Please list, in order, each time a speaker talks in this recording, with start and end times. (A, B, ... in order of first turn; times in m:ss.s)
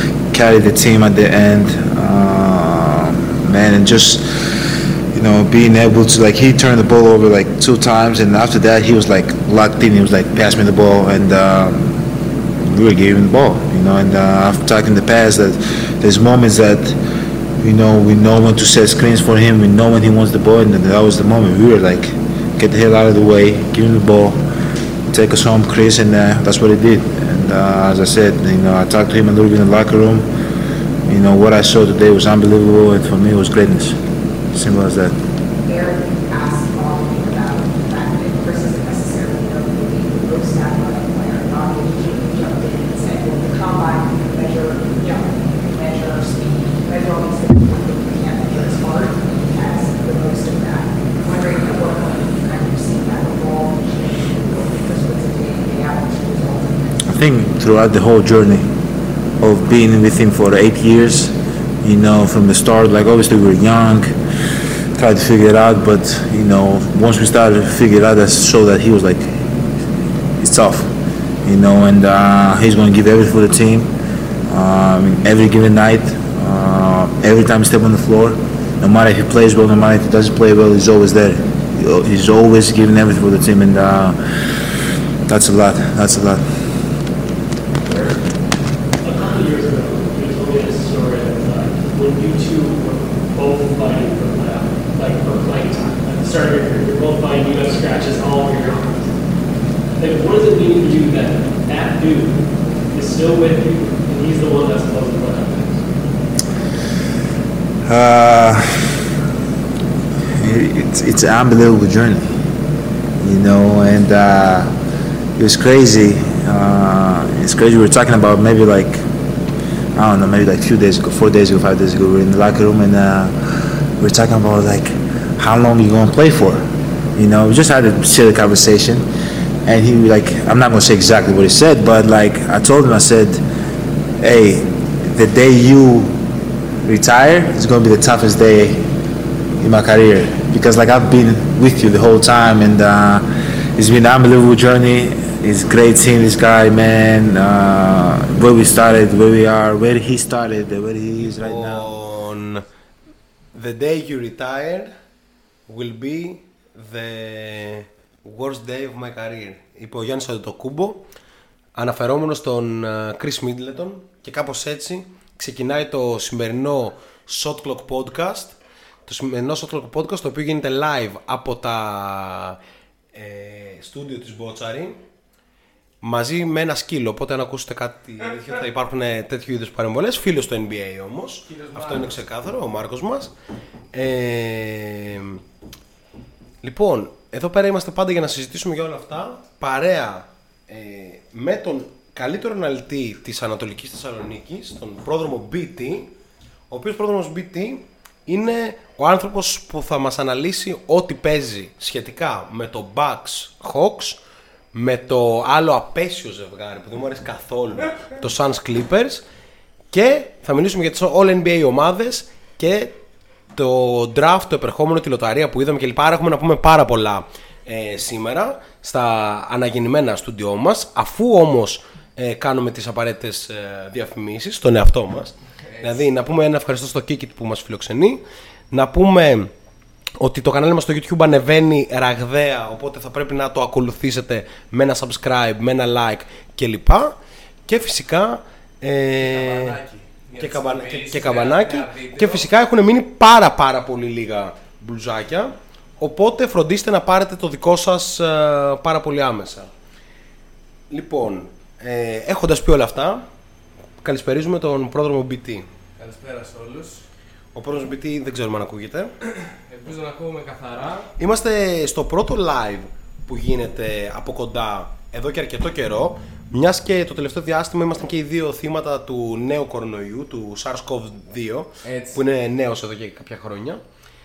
0:00.3-0:12.0 A
0:12.6-0:17.0 A
0:17.6-0:24.4 A
0:25.1-0:30.3 A
0:31.0-0:34.0 A
0:34.5-0:35.2 A
0:35.6-0:57.0 B
0:57.0-0:58.7 A
0:59.4-1:04.2 A
1:04.9-1:09.5 A
1:10.4-1:13.9 A
1:14.5-1:24.7 A
1:25.2-1:26.7 A
1:27.9-1:28.2 C
1:29.0-1:39.2 C
1:39.9-1:45.9 C
1:47.9-1:49.0 A
1:50.4-1:52.3 A
1:53.2-1:54.7 A
1:55.4-1:59.1 A
1:59.9-2:03.3 A
2:04.0-2:09.1 A
2:09.6-2:13.4 A
2:14.2-2:16.2 A
2:16.8-2:18.8 A
2:19.6-2:31.8 A
2:31.2-2:32.7 D
2:33.5-2:34.9 D
2:35.7-2:41.1 D
2:41.8-2:52.6 D
2:53.1-2:55.0 D
2:56.0-3:03.3 D
3:01.4-3:02.2 E
3:03.9-3:05.4 D
3:06.6-3:16.1 D
3:16.7-3:24.2 D
3:24.7-3:29.2 D
3:29.9-3:32.9 D
3:33.5-3:49.5 D
3:45.6-3:46.1 E
3:50.2-3:59.8 D
3:59.2-4:02.4 E
4:00.4-4:09.7 D
4:10.9-4:13.3 D
4:14.0-4:15.7 D
4:16.0-4:17.1 E
4:17.6-4:19.2 D
4:19.3-4:21.1 E
4:21.2-4:33.8 D
4:31.8-4:32.2 E